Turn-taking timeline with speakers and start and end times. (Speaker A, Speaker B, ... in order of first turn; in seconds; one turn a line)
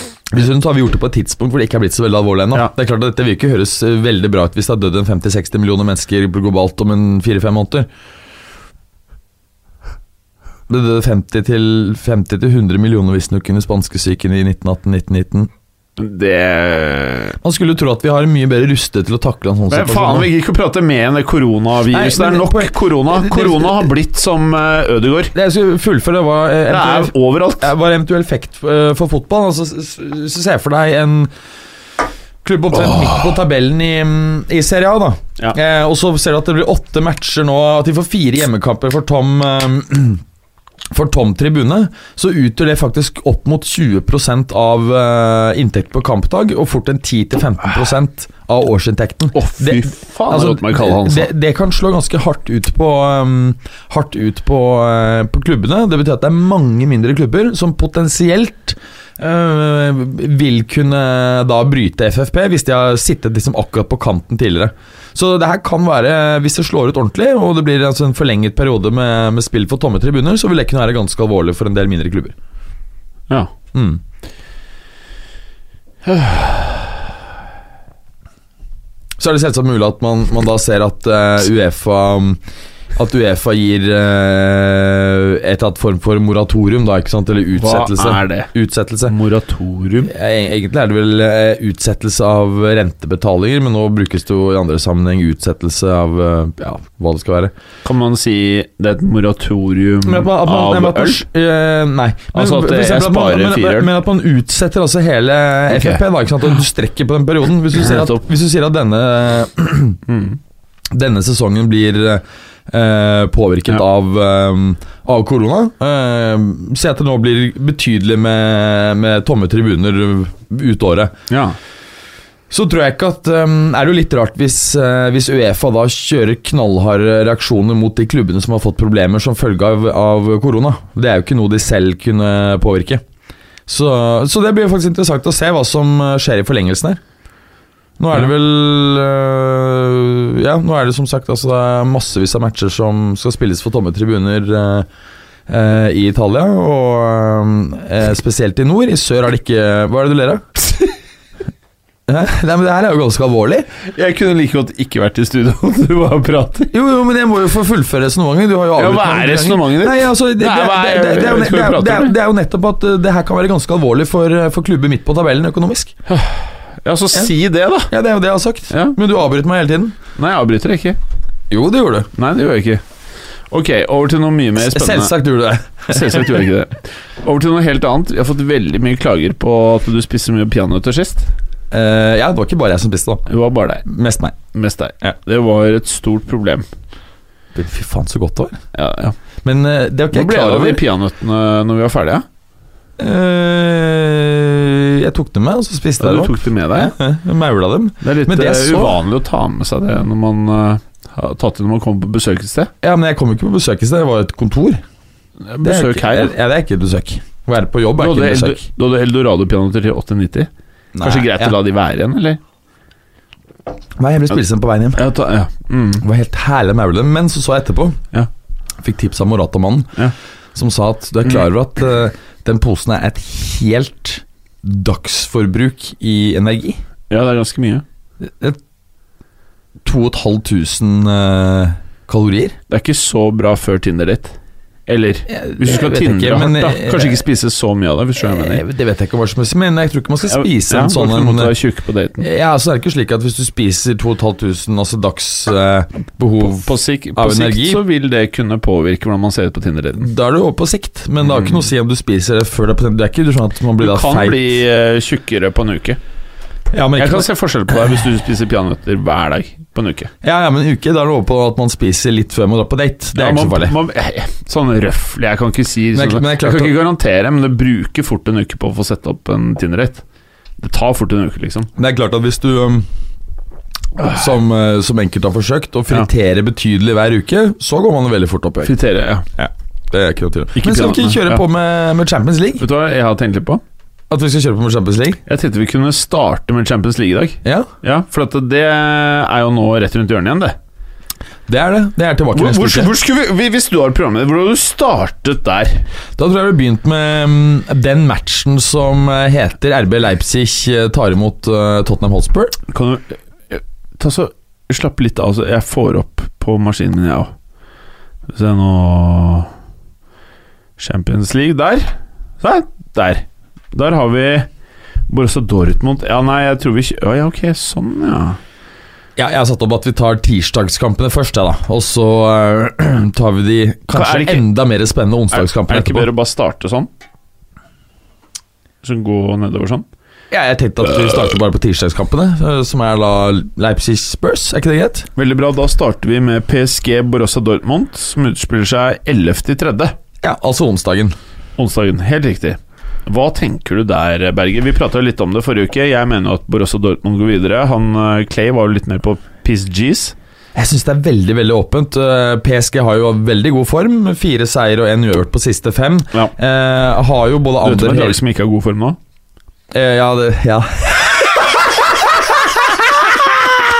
Speaker A: 0.3-7.9
Speaker A: 10.7-15.5
Speaker B: 16.0-17.4
Speaker A: 17.4-20.3
Speaker B: 19.7-25.3
Speaker A: 21.9-23.9
Speaker A: 25.3-31.3
Speaker B: 26.7-27.7
Speaker A: 32.4-40.2
Speaker A: 40.9-72.3
Speaker B: 49.3-51.3
Speaker A: 73.7-74.0
Speaker B: 76.0-76.9
Speaker A: 79.2-82.4
Speaker A: 83.0-89.1
Speaker B: 87.5-88.5
Speaker B: 89.1-90.1
Speaker A: 90.0-97.5
Speaker B: 97.8-101.2
Speaker A: 100.0-110.0
Speaker B: 102.3-103.9
Speaker B: 105.7-106.0
Speaker B: 107.8-108.2
Speaker B: 110.1-110.4
Speaker A: 110.9-121.1
Speaker B: 121.3-121.5
Speaker A: 122.5-133.0
Speaker A: 133.7-137.0
Speaker A: 138.0-144.9
Speaker A: 145.5-150.7
Speaker A: 152.1-153.7
Speaker B: 153.9-156.7
Speaker A: 156.7-165.9
Speaker B: 158.8-162.1
Speaker B: 166.1-167.9
Speaker A: 167.9-170.0
Speaker B: 168.7-169.0
Speaker B: 170.2-171.0
Speaker A: 171.5-172.1
Speaker B: 172.1-172.8
Speaker B: 173.5-175.1
Speaker A: 174.6-176.4
Speaker B: 175.9-181.3
Speaker A: 181.7-183.2
Speaker B: 183.3-183.8
Speaker A: 183.8-184.3
Speaker B: 184.5-186.6
Speaker A: 187.5-188.6
Speaker B: 188.7-189.1
Speaker A: 189.4-190.8
Speaker B: 190.1-192.2
Speaker A: 193.0-199.0
Speaker B: 196.0-196.9
Speaker B: 198.0-202.7
Speaker A: 202.8-204.8
Speaker B: 205.4-206.3
Speaker A: 205.6-208.6
Speaker B: 208.0-210.5
Speaker A: 210.9-211.6
Speaker B: 211.0-212.4
Speaker A: 214.0-215.1
Speaker B: 215.0-216.0
Speaker A: 216.0-218.0
Speaker A: 218.8-220.0
Speaker A: 220.5-226.8
Speaker B: 227.1-227.8
Speaker A: 228.2-228.6
Speaker A: 229.8-232.6
Speaker B: 232.7-234.3
Speaker B: 234.9-238.6
Speaker A: 235.3-237.2
Speaker A: 238.2-241.5
Speaker B: 240.3-242.2
Speaker A: 242.2-247.8
Speaker B: 246.4-250.1
Speaker A: 250.0-254.6
Speaker B: 251.2-251.6
Speaker B: 253.8-256.0
Speaker A: 256.7-257.3
Speaker B: 257.0-260.1
Speaker A: 260.2-263.8
Speaker B: 263.1-270.0
Speaker A: 265.9-266.7
Speaker B: 270.6-271.7
Speaker A: 271.8-272.9
Speaker A: 274.0-278.7
Speaker B: 278.6-279.2
Speaker A: 279.4-282.6
Speaker B: 280.6-281.4
Speaker B: 282.6-283.6
Speaker A: 284.1-285.2
Speaker B: 285.3-290.6
Speaker A: 287.4-287.7
Speaker A: 291.5-292.9
Speaker B: 292.3-295.8
Speaker A: 296.2-302.6
Speaker B: 302.7-307.3
Speaker B: 308.3-309.5
Speaker B: 310.8-314.5
Speaker B: 315.1-318.4
Speaker A: 319.2-326.1
Speaker B: 323.9-324.4
Speaker B: 325.3-326.9
Speaker B: 328.8-329.8
Speaker A: 330.3-335.1
Speaker B: 335.1-339.9
Speaker A: 340.2-341.1
Speaker B: 341.6-350.1
Speaker A: 350.5-358.2
Speaker B: 357.6-359.0
Speaker A: 359.7-362.8